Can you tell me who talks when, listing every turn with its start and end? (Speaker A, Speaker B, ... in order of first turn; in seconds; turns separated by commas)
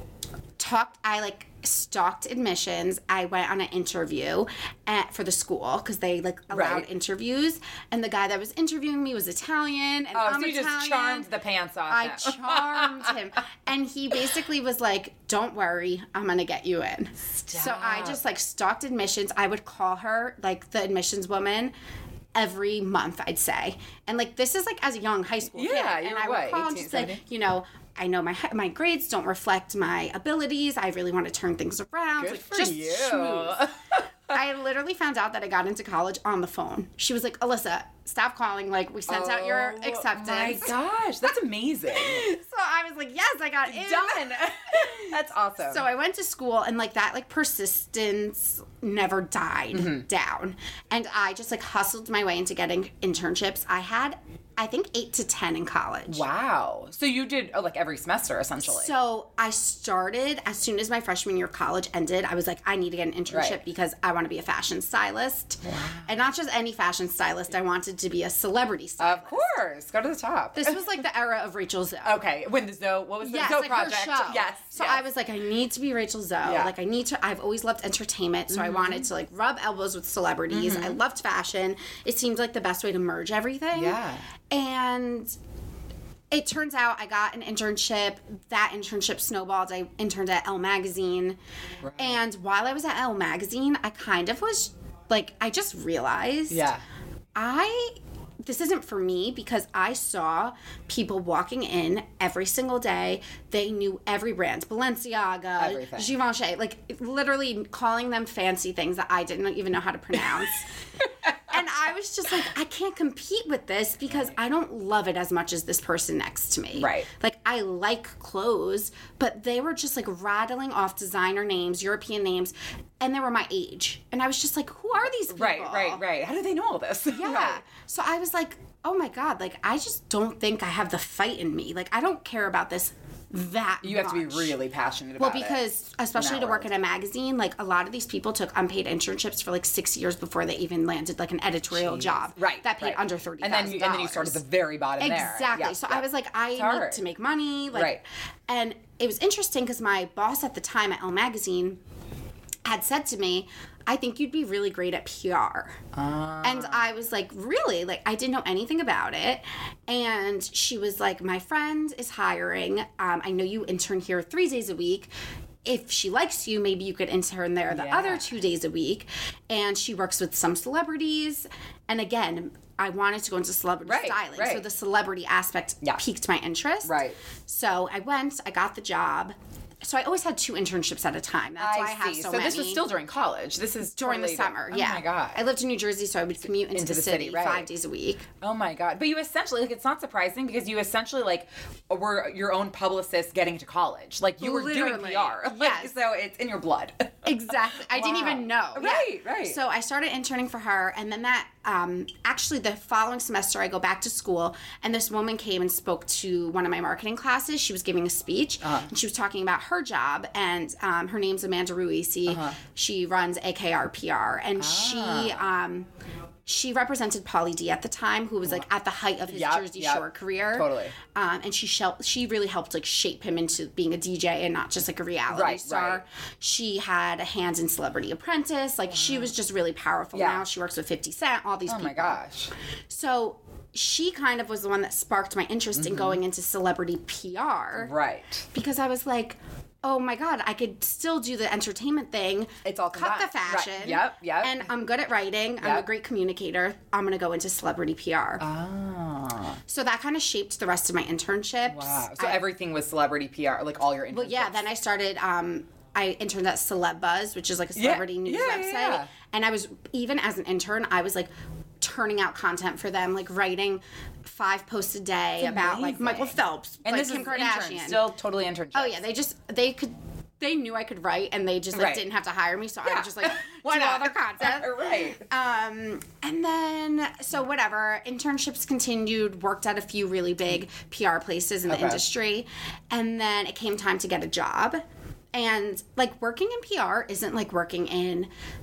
Speaker A: 0.6-11.3, Speaker B: 6.5-6.9, Speaker B: 10.1-13.2, Speaker A: 11.9-21.7, Speaker B: 17.5-18.2, Speaker A: 22.3-33.7, Speaker B: 25.5-27.2, Speaker B: 32.2-34.0, Speaker A: 34.3-40.8, Speaker B: 39.1-42.3, Speaker A: 41.9-56.2, Speaker B: 43.6-45.8, Speaker B: 49.7-50.0, Speaker B: 56.1-58.9, Speaker A: 58.6-69.5, Speaker B: 63.3-63.6, Speaker B: 65.6-66.1, Speaker B: 69.0-70.8, Speaker A: 70.5-72.2, Speaker B: 72.0-75.0, Speaker A: 73.2-84.0, Speaker B: 76.4-76.7, Speaker B: 78.5-79.0, Speaker B: 80.5-81.0, Speaker B: 83.7-84.2, Speaker A: 84.5-85.3, Speaker A: 86.3-91.4, Speaker B: 91.8-92.2, Speaker A: 92.0-96.7, Speaker B: 96.5-96.8, Speaker A: 97.3-110.7, Speaker B: 105.6-106.1, Speaker A: 111.3-126.0, Speaker B: 116.7-117.1, Speaker B: 125.0-127.6, Speaker A: 127.1-134.6, Speaker B: 133.8-135.6, Speaker A: 135.2-144.4, Speaker B: 136.1-136.7, Speaker B: 141.7-147.0, Speaker A: 145.0-151.8, Speaker B: 147.7-148.0, Speaker A: 152.7-155.8, Speaker B: 155.9-156.9, Speaker A: 156.4-165.1, Speaker A: 165.6-182.8, Speaker B: 167.7-168.3, Speaker B: 173.8-174.6, Speaker B: 176.8-177.2, Speaker B: 181.6-185.4, Speaker A: 184.0-188.3, Speaker B: 186.7-187.7, Speaker B: 188.4-199.6, Speaker A: 194.4-195.9, Speaker A: 197.2-215.9, Speaker B: 208.6-208.9, Speaker B: 212.3-212.6, Speaker B: 214.6-215.5, Speaker A: 216.4-232.2, Speaker B: 219.3-220.9, Speaker B: 225.3-226.0, Speaker B: 228.9-229.3, Speaker B: 230.1-230.4, Speaker B: 231.7-232.5, Speaker A: 232.9-237.9, Speaker B: 235.7-236.2, Speaker B: 237.8-238.5, Speaker A: 238.5-248.4, Speaker B: 242.6-244.6, Speaker B: 245.6-245.9, Speaker B: 248.4-249.6, Speaker A: 249.7-252.4, Speaker B: 251.7-254.7, Speaker A: 254.1-261.3, Speaker B: 257.8-259.1, Speaker A: 261.8-268.0, Speaker B: 265.4-269.0, Speaker A: 268.7-284.8, Speaker B: 271.7-272.0, Speaker B: 272.8-275.2, Speaker B: 281.7-282.0, Speaker A: 285.3-288.3